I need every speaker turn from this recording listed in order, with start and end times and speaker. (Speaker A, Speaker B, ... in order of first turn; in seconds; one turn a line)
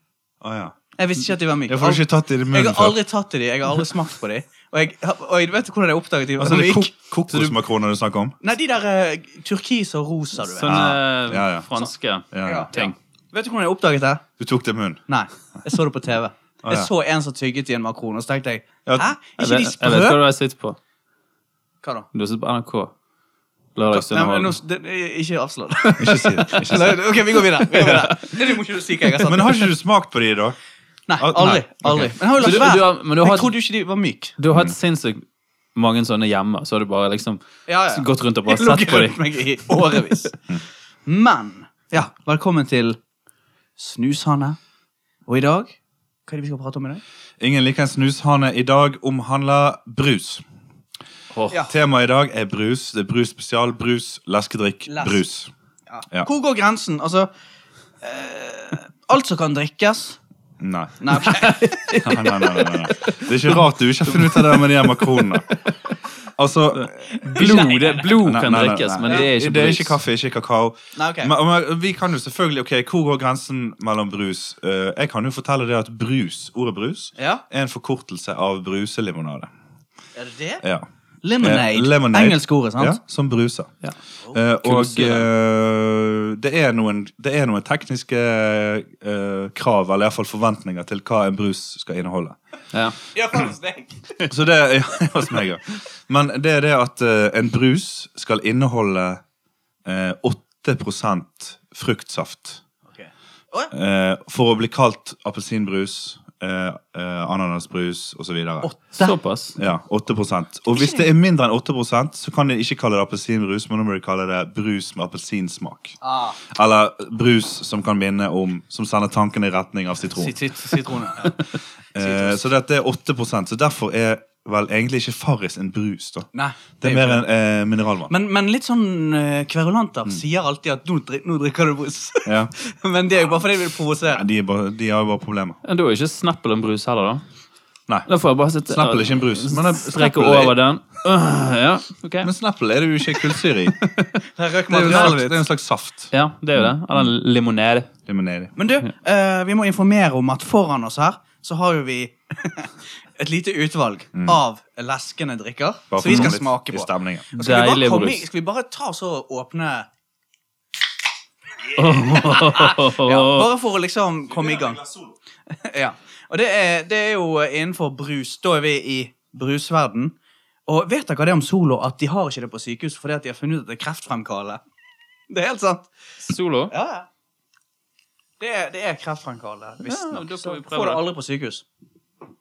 Speaker A: 0.4-0.8
Speaker B: 1.0-6.9
Speaker A: 1.6-3.0
Speaker A: 6.4-8.4
Speaker C: 7.3-7.5
Speaker B: 8.4-10.8
Speaker C: 10.5-12.9
Speaker A: 10.6-11.7
Speaker A: 12.3-12.7
Speaker B: 12.4-14.2
Speaker A: 14.4-15.0
Speaker B: 15.1-20.2
Speaker A: 16.6-16.9
Speaker C: 19.4-20.8
Speaker C: 22.1-22.9
Speaker C: 23.8-24.6
Speaker B: 23.9-29.7
Speaker A: 26.0-27.2
Speaker C: 27.7-28.2
Speaker A: 29.2-30.6
Speaker B: 31.1-34.4
Speaker A: 31.2-32.2
Speaker C: 32.4-33.5
Speaker C: 34.4-35.2
Speaker C: 35.8-40.2
Speaker B: 37.7-40.4
Speaker B: 41.1-43.0
Speaker B: 43.8-44.6
Speaker B: 45.3-45.8
Speaker B: 46.3-47.0
Speaker A: 47.4-50.4
Speaker C: 51.3-51.6
Speaker A: 51.6-55.5
Speaker B: 54.9-55.2
Speaker B: 55.9-57.3
Speaker B: 58.0-60.2
Speaker A: 60.6-61.2
Speaker B: 61.0-62.8
Speaker A: 62.0-65.6
Speaker C: 64.1-64.6
Speaker A: 66.4-79.5
Speaker B: 67.1-68.1
Speaker C: 67.3-70.0
Speaker B: 71.0-71.3
Speaker B: 77.2-77.4
Speaker B: 80.2-80.7
Speaker B: 81.2-83.0
Speaker A: 81.4-83.8
Speaker A: 84.3-92.4
Speaker C: 84.6-85.3
Speaker C: 92.7-93.0
Speaker B: 93.1-94.1
Speaker A: 94.3-99.2
Speaker A: 99.8-102.6
Speaker B: 102.9-103.7
Speaker A: 103.7-108.7
Speaker B: 108.6-109.2
Speaker C: 109.0-109.6
Speaker A: 109.6-120.4
Speaker B: 110.7-111.1
Speaker B: 116.0-116.4
Speaker B: 120.2-121.4
Speaker A: 121.9-128.1
Speaker B: 122.0-122.4
Speaker B: 126.3-127.3
Speaker B: 128.1-134.2
Speaker A: 132.3-132.5
Speaker A: 134.1-135.6
Speaker C: 135.6-137.2
Speaker C: 138.1-142.3
Speaker A: 138.7-140.6
Speaker A: 142.2-143.8
Speaker C: 143.2-144.2
Speaker B: 144.4-145.4
Speaker A: 144.7-147.1
Speaker C: 144.9-145.2
Speaker C: 146.1-147.9
Speaker A: 148.1-148.6
Speaker B: 148.6-159.9
Speaker A: 154.2-154.4
Speaker A: 155.9-157.3
Speaker C: 157.3-158.2
Speaker C: 161.7-163.5
Speaker B: 161.8-165.0
Speaker B: 165.5-170.1
Speaker B: 170.7-174.6
Speaker B: 175.3-175.9
Speaker C: 176.2-176.7
Speaker B: 176.7-177.1
Speaker B: 178.4-181.7
Speaker C: 179.8-181.1